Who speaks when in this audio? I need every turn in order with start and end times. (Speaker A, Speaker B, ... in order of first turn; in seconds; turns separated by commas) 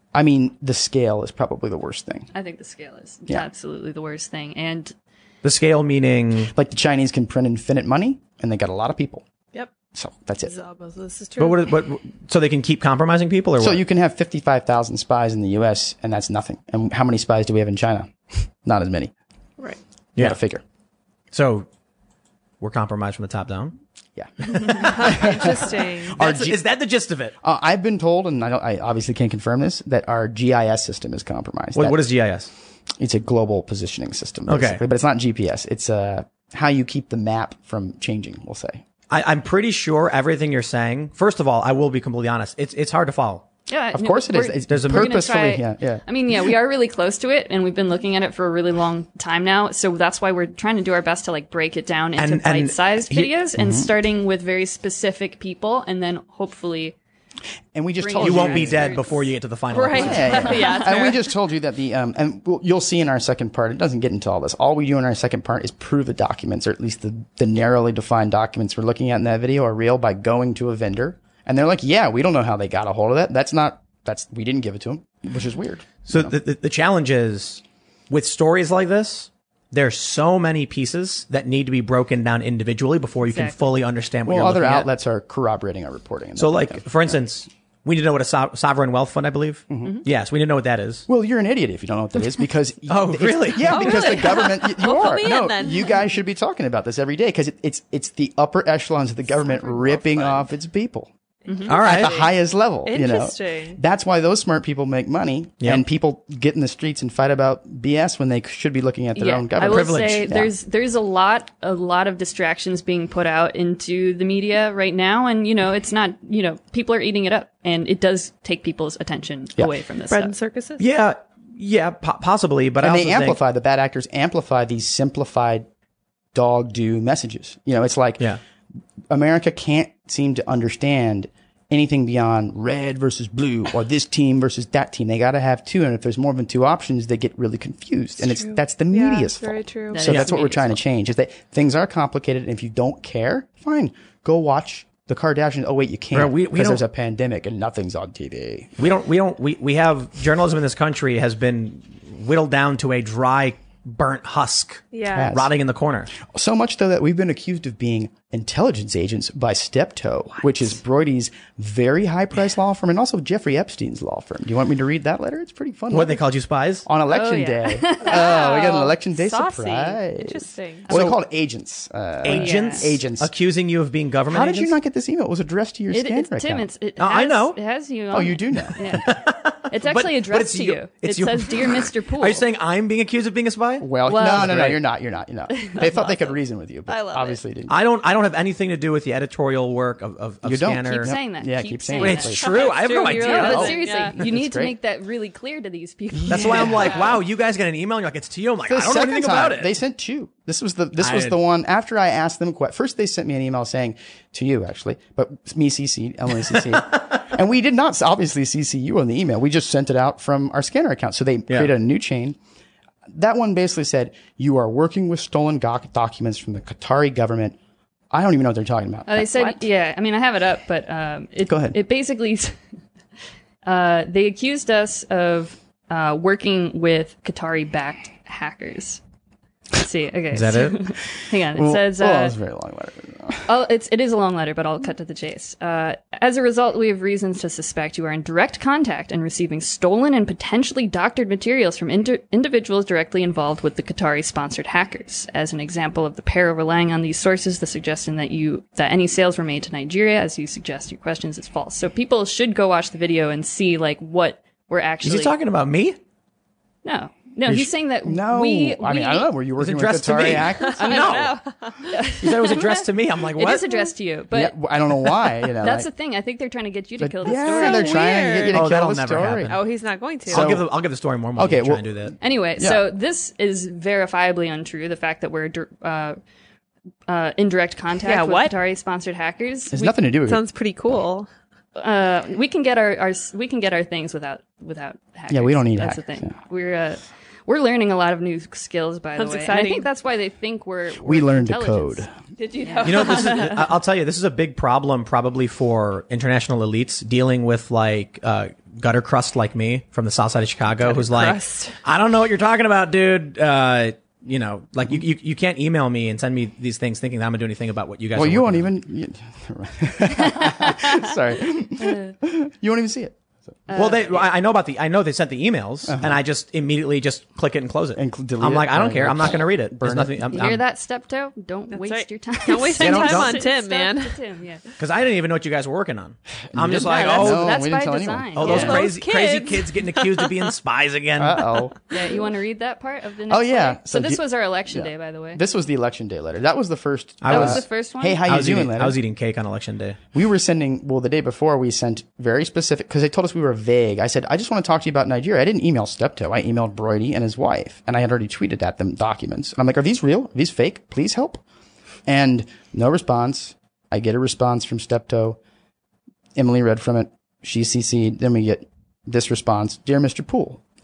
Speaker A: 0.1-2.3, Speaker B: 2.3-4.9, Speaker C: 5.4-6.5, Speaker A: 6.5-9.2, Speaker A: 9.9-10.5, Speaker D: 10.4-11.7, Speaker C: 11.4-13.8, Speaker A: 13.6-19.1, Speaker A: 20.2-20.6, Speaker C: 21.3-21.7, Speaker C: 22.6-23.8, Speaker A: 24.1-26.6, Speaker C: 24.4-27.3, Speaker D: 24.8-26.2, Speaker A: 27.4-32.0, Speaker C: 31.7-32.5, Speaker A: 33.0-38.8, Speaker C: 34.5-34.8, Speaker C: 39.1-43.5, Speaker B: 43.7-56.9, Speaker A: 43.9-46.0, Speaker C: 44.7-45.1, Speaker C: 52.2-53.3, Speaker A: 53.6-53.9, Speaker A: 57.7-58.9, Speaker B: 58.0-59.3, Speaker C: 58.2-60.6, Speaker D: 59.7-61.2, Speaker B: 59.9-61.1, Speaker A: 59.9-76.3, Speaker C: 76.1-84.9, Speaker B: 83.2-83.6, Speaker A: 84.2-87.2, Speaker C: 86.4-91.1, Speaker A: 89.7-90.0, Speaker A: 91.1-101.1, Speaker C: 92.9-94.2, Speaker D: 93.6-96.0, Speaker D: 99.6-100.0, Speaker D: 101.5-102.3, Speaker C: 101.7-102.3, Speaker A: 101.7-110.5, Speaker D: 102.8-103.8, Speaker B: 109.2-120.3, Speaker C: 109.6-110.2, Speaker D: 120.1-120.8, Speaker C: 120.8-123.4, Speaker A: 122.8-125.7, Speaker A: 126.3-128.2, Speaker A: 129.1-148.7, Speaker D: 138.3-140.0, Speaker B: 139.9-140.8, Speaker C: 140.1-140.3, Speaker C: 146.1-146.8, Speaker C: 148.8-156.1, Speaker D: 154.9-155.3, Speaker A: 155.1-155.5, Speaker A: 156.2-166.2, Speaker C: 165.9-166.8, Speaker A: 166.8-173.3, Speaker B: 167.1-169.7, Speaker D: 168.1-168.9, Speaker D: 169.6-170.9, Speaker C: 170.9-171.2, Speaker C: 172.2-174.7, Speaker B: 172.3-172.9, Speaker A: 174.3-176.7, Speaker B: 175.9-182.4, Speaker C: 177.0-177.6, Speaker A: 178.1-179.0, Speaker C: 178.9-184.8, Speaker A: 183.8-187.8, Speaker B: 184.1-184.7, Speaker B: 185.5-186.2, Speaker D: 186.9-187.4, Speaker C: 187.7-191.1, Speaker A: 190.4-192.7, Speaker B: 190.9-197.1, Speaker C: 192.0-193.8, Speaker D: 192.0-194.2, Speaker A: 193.3-194.7, Speaker A: 196.1-197.1, Speaker C: 196.3-199.7, Speaker A: 198.7-212.4, Speaker C: 201.0-201.4, Speaker A: 213.1-217.6, Speaker A: 218.1-219.6, Speaker B: 219.1-222.6, Speaker A: 221.5-221.8, Speaker B: 223.6-229.0, Speaker B: 229.7-232.3, Speaker C: 230.3-230.8, Speaker A: 231.5-233.5, Speaker B: 233.4-255.3, Speaker C: 255.0-256.0, Speaker B: 256.8-259.3, Speaker A: 258.0-261.2, Speaker C: 259.6-261.3, Speaker D: 260.6-262.0, Speaker B: 260.8-261.3, Speaker B: 261.9-262.8, Speaker C: 262.2-263.7, Speaker B: 263.4-268.4, Speaker A: 264.3-265.9, Speaker A: 267.0-269.6, Speaker D: 267.3-268.6, Speaker C: 268.5-269.6, Speaker D: 269.5-270.5, Speaker C: 270.3-272.1, Speaker A: 270.3-270.7, Speaker A: 271.4-272.8, Speaker B: 272.2-276.2, Speaker B: 277.1-279.9, Speaker D: 278.0-278.5, Speaker A: 279.7-280.4, Speaker D: 280.2-281.3, Speaker B: 281.8-292.0, Speaker A: 285.3-286.3, Speaker D: 289.2-289.9, Speaker A: 291.0-292.1, Speaker D: 292.4-293.6, Speaker B: 292.6-293.4, Speaker C: 292.8-308.7, Speaker D: 300.8-301.8, Speaker A: 308.1-313.2, Speaker B: 310.3-311.0, Speaker B: 311.8-312.1, Speaker B: 313.7-314.3, Speaker C: 313.7-320.6, Speaker A: 315.9-316.2, Speaker A: 317.9-320.5, Speaker B: 320.3-324.6, Speaker D: 321.7-324.1, Speaker C: 322.7-323.4, Speaker C: 324.8-327.6, Speaker A: 326.5-328.8, Speaker B: 326.9-328.9, Speaker C: 328.4-331.5, Speaker D: 328.4-330.4, Speaker A: 331.2-331.8, Speaker B: 331.9-335.4, Speaker A: 333.3-339.0, Speaker C: 337.2-337.6, Speaker B: 337.3-338.2, Speaker C: 338.2-340.0, Speaker A: 340.1-351.4, Speaker A: 352.1-355.4, Speaker A: 356.4-360.6